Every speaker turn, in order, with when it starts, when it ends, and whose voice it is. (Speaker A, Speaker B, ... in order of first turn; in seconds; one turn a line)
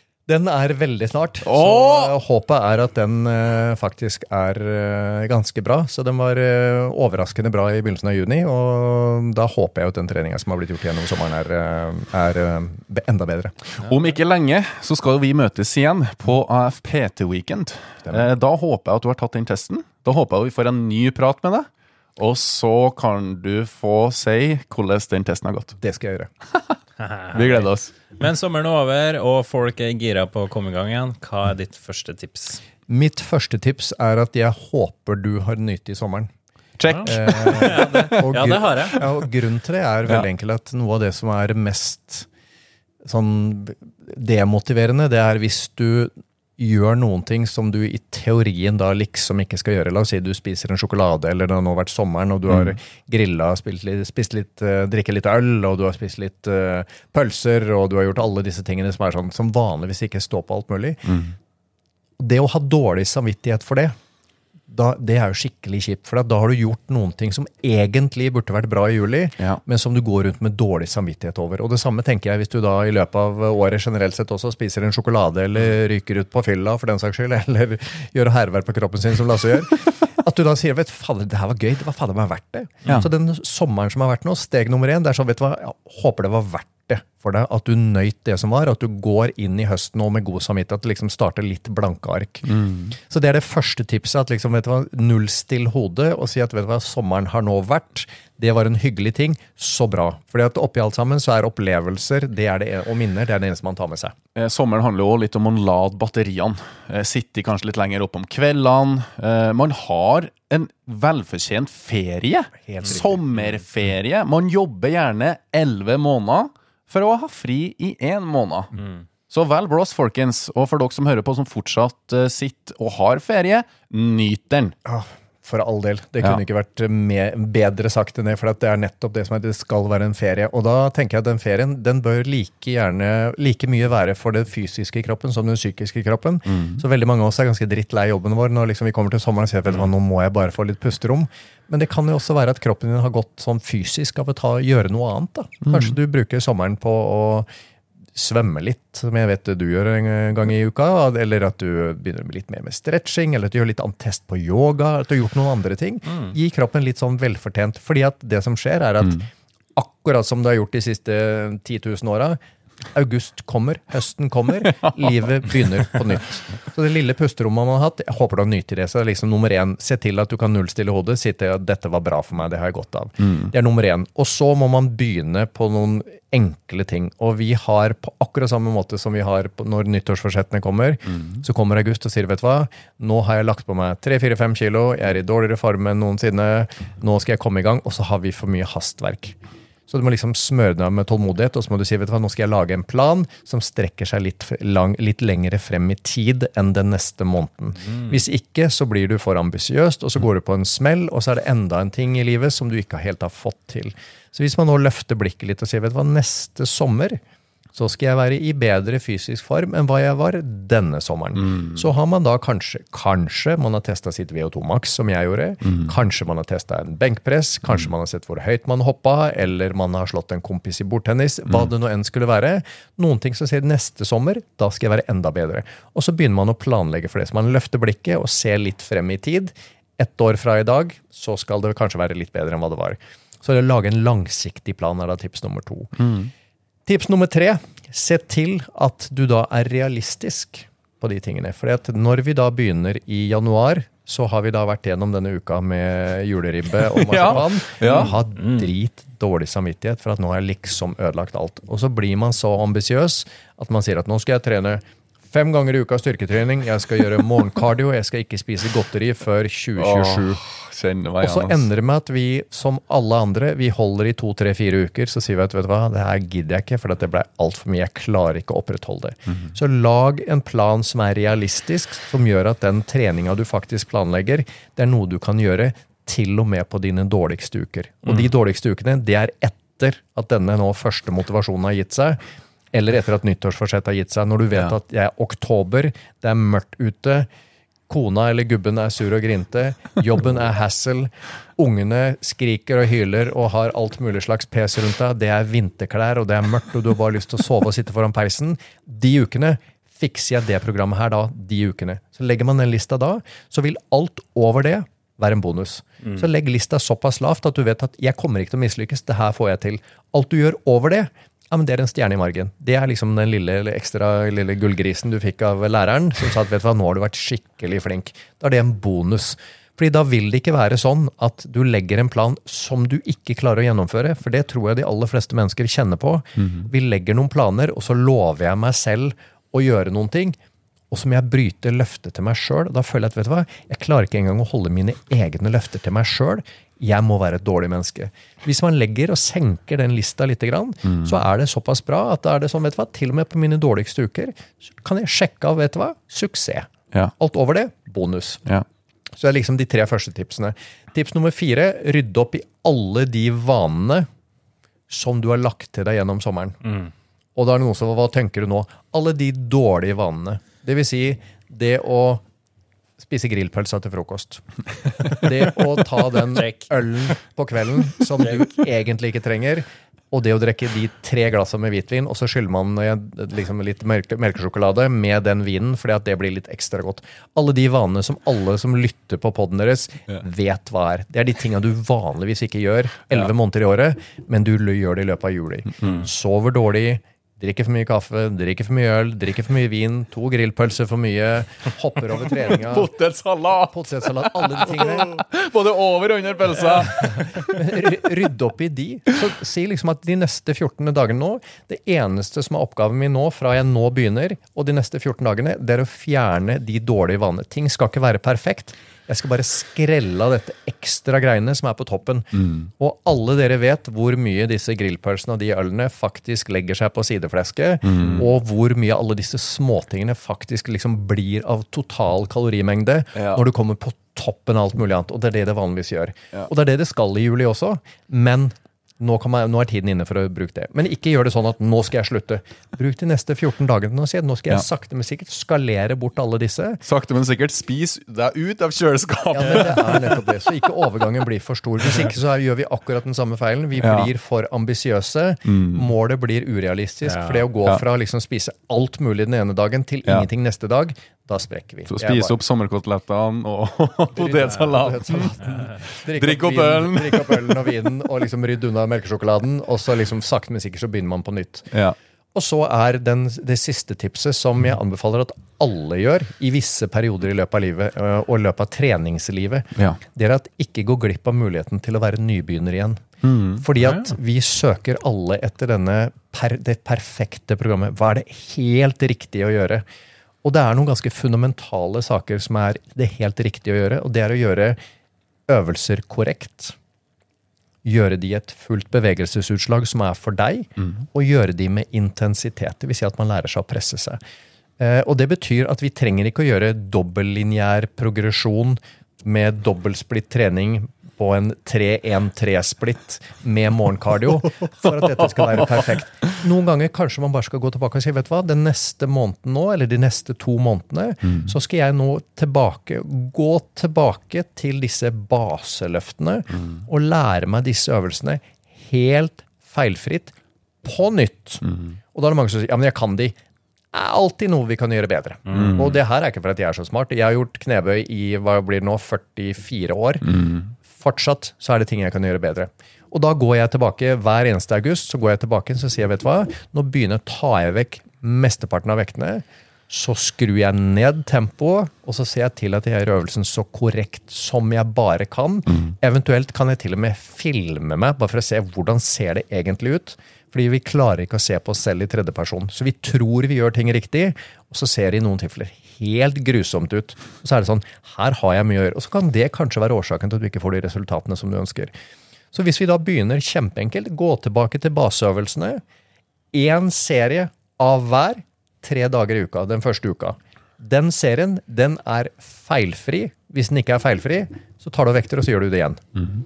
Speaker A: 0.3-13.6
Speaker B: 1.4-2.1
Speaker B: 13.7-25.8
Speaker A: 25.8-26.3
Speaker C: 27.0-32.6
Speaker B: 27.3-27.9
Speaker A: 32.9-36.3
Speaker B: 36.8-38.1
Speaker C: 36.9-39.0
Speaker A: 37.0-42.3
Speaker A: 43.0-61.0
Speaker B: 52.5-52.8
Speaker B: 61.0-61.3
Speaker A: 62.2-63.9
Speaker A: 64.7-104.1
Speaker B: 92.5-92.9
Speaker B: 104.3-118.7
Speaker A: 112.6-113.4
Speaker B: 119.3-124.7
Speaker A: 124.8-147.5
Speaker B: 136.5-136.8
Speaker B: 145.6-145.9
Speaker A: 148.1-162.4
Speaker C: 156.1-156.3
Speaker A: 162.9-189.4
Speaker B: 164.7-165.1
Speaker B: 173.2-173.5
Speaker B: 181.1-181.4
Speaker A: 189.9-207.2
Speaker A: 207.7-236.1
Speaker B: 211.3-211.8
Speaker B: 236.0-236.3
Speaker A: 236.8-260.4
Speaker B: 246.9-248.2
Speaker C: 247.9-248.7
Speaker B: 259.8-261.6
Speaker A: 261.2-282.2
Speaker A: 282.7-287.3
Speaker A: 287.9-330.4
Speaker B: 326.4-326.7
Speaker A: 330.9-348.4
Speaker B: 340.8-341.2
Speaker A: 349.2-354.1
Speaker A: 354.9-356.6
Speaker A: 357.4-362.2
Speaker A: 363.0-364.4
Speaker A: 365.0-392.9
Speaker C: 366.3-366.7
Speaker B: 392.4-397.6
Speaker A: 393.7-395.2
Speaker A: 397.0-436.8
Speaker B: 412.3-412.7
Speaker B: 417.8-418.3
Speaker B: 423.1-423.4
Speaker B: 436.8-440.3
Speaker A: 439.3-452.4
Speaker B: 443.8-444.1
Speaker B: 445.4-445.9
Speaker C: 447.1-447.4
Speaker B: 451.9-457.5
Speaker A: 454.1-461.7
Speaker B: 461.7-461.9
Speaker A: 462.3-473.0
Speaker B: 473.2-473.6
Speaker A: 473.6-479.8
Speaker A: 480.4-484.8
Speaker A: 485.5-486.8
Speaker A: 487.8-494.2
Speaker A: 494.8-523.4
Speaker B: 511.2-511.5
Speaker B: 521.6-521.9
Speaker A: 523.9-561.9
Speaker B: 525.5-526.0
Speaker B: 530.2-530.7
Speaker A: 562.5-565.8
Speaker A: 566.5-576.2